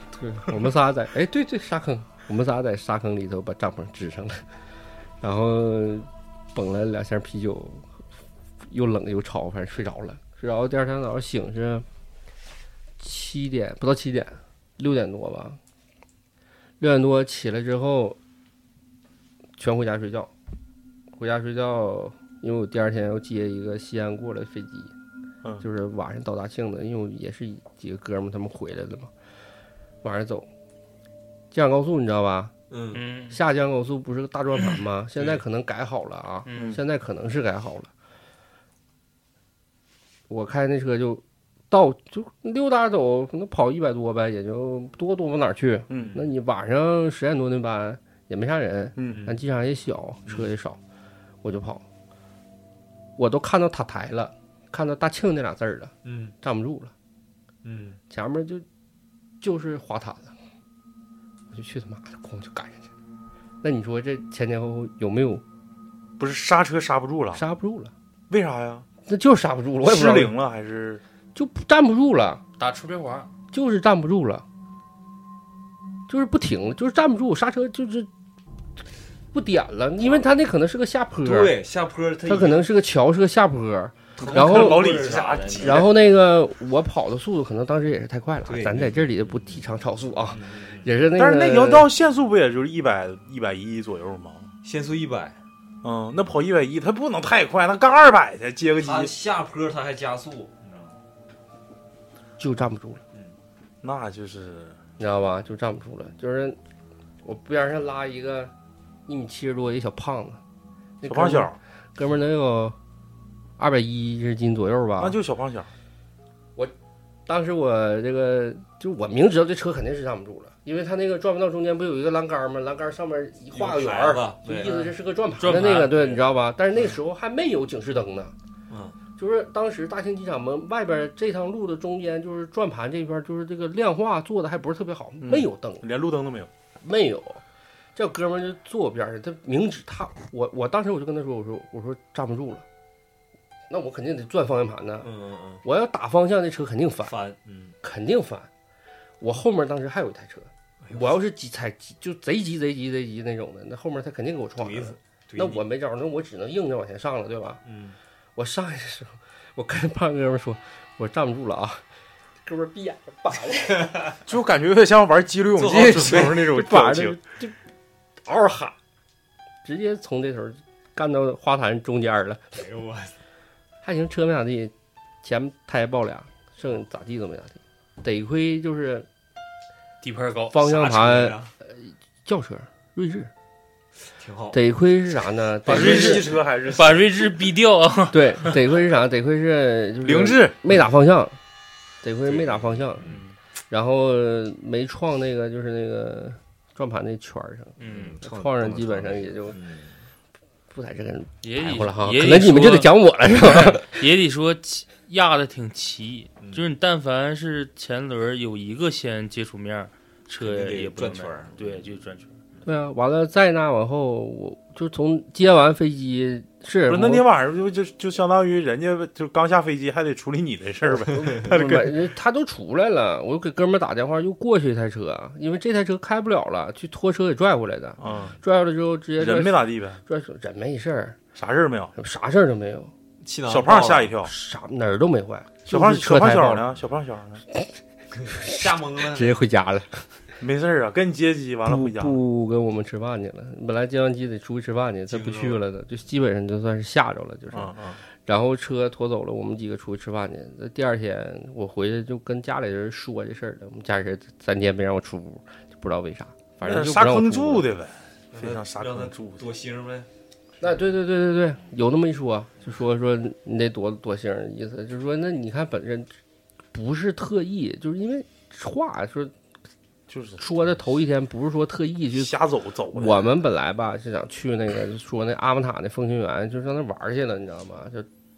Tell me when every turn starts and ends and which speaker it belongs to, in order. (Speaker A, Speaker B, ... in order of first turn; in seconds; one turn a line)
Speaker A: 0.2-4.5
Speaker A: 5.2-8.0
Speaker A: 8.6-11.9
Speaker A: 13.0-15.6
Speaker A: 16.8-18.2
Speaker A: 19.6-20.3
Speaker A: 21.1-24.9
Speaker A: 25.6-29.1
Speaker A: 30.0-30.5
Speaker A: 31.5-32.5
Speaker B: 32.7-33.0
Speaker C: 32.9-33.4
Speaker A: 33.3-37.9
Speaker C: 36.5-36.8
Speaker D: 36.5-36.8
Speaker A: 40.3-50.8
Speaker D: 45.9-46.2
Speaker D: 49.0-49.2
Speaker B: 49.1-49.4
Speaker A: 51.4-51.8
Speaker A: 53.2-56.9
Speaker B: 56.0-56.3
Speaker B: 57.6-58.0
Speaker A: 58.1-58.6
Speaker A: 59.4-60.3
Speaker A: 61.5-62.9
Speaker A: 63.6-65.4
Speaker D: 66.2-67.4
Speaker A: 67.3-67.9
Speaker D: 68.3-68.9
Speaker A: 69.0-70.3
Speaker D: 69.8-71.0
Speaker A: 71.3-72.4
Speaker C: 72.6-73.3
Speaker A: 73.5-74.4
Speaker A: 76.1-78.1
Speaker A: 79.3-81.5
Speaker B: 81.2-82.7
Speaker A: 82.2-85.0
Speaker B: 84.2-85.9
Speaker D: 84.2-85.9
Speaker A: 85.6-91.9
Speaker B: 88.5-89.6
Speaker B: 90.3-91.0
Speaker D: 91.2-94.5
Speaker B: 94.6-95.4
Speaker D: 95.8-99.1
Speaker B: 98.8-101.0
Speaker A: 102.4-103.0
Speaker D: 103.8-104.8
Speaker A: 105.0-106.6
Speaker A: 107.2-108.5
Speaker A: 109.0-110.4
Speaker A: 111.0-112.8
Speaker D: 111.0-111.6
Speaker A: 113.6-115.2
Speaker D: 115.0-115.7
Speaker A: 117.2-128.3
Speaker B: 123.5-125.0
Speaker C: 125.4-126.2
Speaker B: 128.7-129.0
Speaker A: 129.2-135.8
Speaker D: 135.2-136.5
Speaker A: 136.8-137.4
Speaker A: 137.9-142.6
Speaker A: 143.7-145.1
Speaker B: 145.0-145.6
Speaker A: 145.6-147.1
Speaker B: 147.0-147.8
Speaker A: 147.8-148.5
Speaker A: 149.2-157.6
Speaker B: 150.8-151.2
Speaker B: 154.6-155.6
Speaker B: 157.6-158.0
Speaker A: 158.4-161.8
Speaker A: 162.4-164.2
Speaker B: 163.8-164.1
Speaker D: 164.2-167.2
Speaker B: 165.5-166.5
Speaker A: 165.6-167.5
Speaker A: 168.2-168.7
Speaker A: 169.6-172.6
Speaker B: 172.5-173.1
Speaker A: 173.8-179.1
Speaker C: 180.0-180.5
Speaker A: 180.5-183.3
Speaker B: 180.6-181.5
Speaker B: 184.2-184.6
Speaker A: 184.5-186.3
Speaker D: 185.6-187.1
Speaker B: 185.7-186.3
Speaker C: 186.7-188.5
Speaker A: 188.1-191.4
Speaker D: 190.0-190.6
Speaker A: 192.0-193.1
Speaker B: 192.2-193.2
Speaker A: 193.7-199.6
Speaker C: 197.8-198.2
Speaker B: 197.8-200.0
Speaker A: 200.7-204.0
Speaker C: 201.4-202.9
Speaker C: 203.5-212.4
Speaker B: 210.4-211.9
Speaker A: 212.6-217.2
Speaker D: 216.9-222.1
Speaker A: 220.8-231.2
Speaker D: 228.0-228.4
Speaker D: 229.2-230.0
Speaker D: 231.3-231.9
Speaker A: 231.9-232.9
Speaker B: 233.2-234.2
Speaker D: 233.4-234.3
Speaker A: 234.2-236.6
Speaker D: 235.7-237.4
Speaker B: 238.2-239.4
Speaker A: 238.3-240.1
Speaker D: 240.4-242.2
Speaker A: 241.7-257.7
Speaker B: 245.1-245.6
Speaker D: 247.5-247.8
Speaker D: 256.6-259.5
Speaker B: 258.3-260.1
Speaker A: 260.6-266.1
Speaker A: 266.7-269.3
Speaker D: 270.1-270.4
Speaker A: 270.4-272.3
Speaker D: 272.1-273.4
Speaker A: 272.9-278.1